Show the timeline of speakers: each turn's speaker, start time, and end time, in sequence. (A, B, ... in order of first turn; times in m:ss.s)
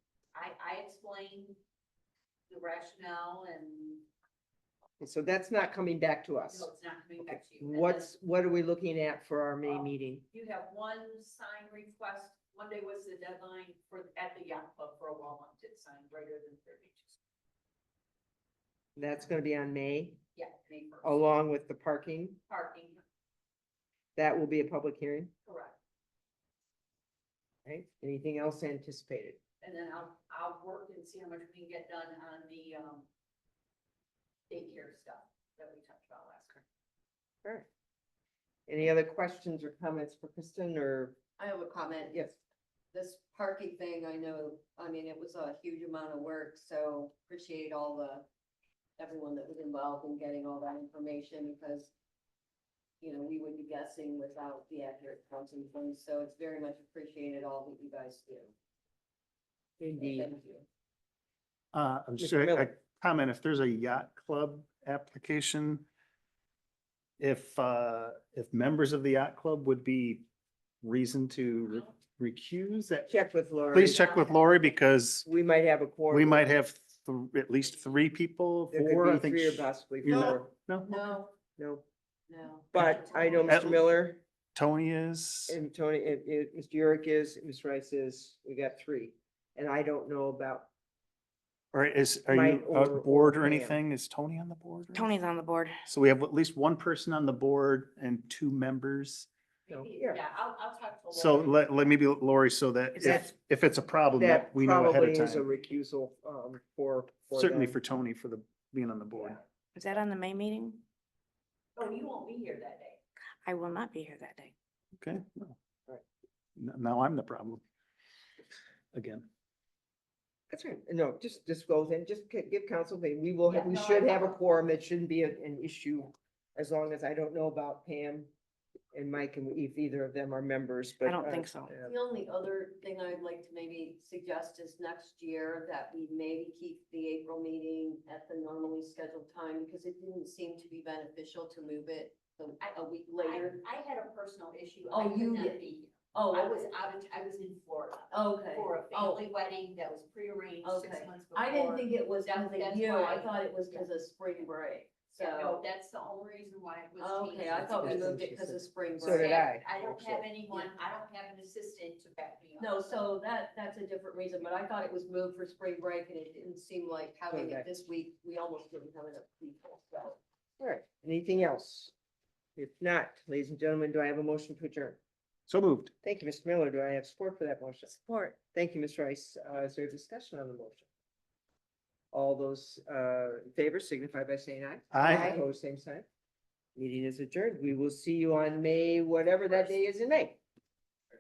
0:00.3-0:01.6 A
0:02.5-0:04.0 A
0:05.0-0:06.7 B
0:06.5-0:08.1 A
0:07.6-0:10.2 B
0:09.6-0:17.2 A
0:19.0-0:20.2 B
0:20.4-0:21.3 A
0:21.0-0:22.4 B
0:22.5-0:23.0 A
0:24.2-0:25.3 B
0:25.4-0:25.8 A
0:27.6-0:29.4 B
0:29.6-0:33.1 A
0:34.5-0:36.6 A
0:38.7-0:41.2 B
0:41.4-0:42.3 C
0:42.9-0:48.3 C
0:49.0-0:51.9 C
0:53.0-0:58.6 C
0:59.8-1:00.3 B
1:00.0-1:00.6 C
1:01.7-1:05.8 D
1:02.2-1:02.7 B
1:07.2-1:10.2 D
1:10.8-1:13.1 D
1:13.1-1:14.2 B
1:13.7-1:15.3 D
1:14.0-1:14.7 A
1:15.2-1:16.5 B
1:16.1-1:20.9 D
1:18.7-1:20.5 B
1:20.8-1:21.3 C
1:21.6-1:21.8 B
1:22.3-1:23.5 C
1:22.7-1:24.2 B
1:22.8-1:23.3 A
1:23.4-1:23.9 D
1:24.5-1:25.6 D
1:25.5-1:30.7 B
1:31.7-1:35.1 D
1:32.3-1:33.8 B
1:34.9-1:35.8 E
1:35.9-1:39.3 D
1:39.7-1:40.2 B
1:39.7-1:41.9 A
1:41.1-1:45.5 D
1:43.0-1:43.3 B
1:44.2-1:47.8 B
1:47.3-1:49.4 D
1:49.7-1:50.8 E
1:51.8-1:53.0 A
1:53.4-1:54.5 E
1:55.0-1:55.6 D
1:56.6-1:57.6 D
1:58.9-1:59.2 D
2:00.5-2:08.3 B
2:03.5-2:04.4 A
2:08.9-2:11.9 B
2:11.0-2:11.7 E
2:11.8-2:23.6 C
2:22.6-2:33.9 A
2:24.9-2:25.6 C
2:26.1-2:26.7 C
2:28.1-2:29.2 C
2:30.6-2:35.6 C
2:35.2-2:38.3 A
2:37.0-2:39.5 C
2:37.6-2:40.3 B
2:39.0-2:43.0 A
2:42.6-2:50.2 C
2:47.3-2:47.7 B
2:50.6-2:51.9 B
2:52.6-2:55.0 B
2:55.5-2:55.9 D
2:56.0-3:00.8 B
2:57.9-2:58.3 E
3:02.1-3:06.0 B
3:04.9-3:05.4 D
3:05.0-3:05.4 E
3:06.8-3:10.4 B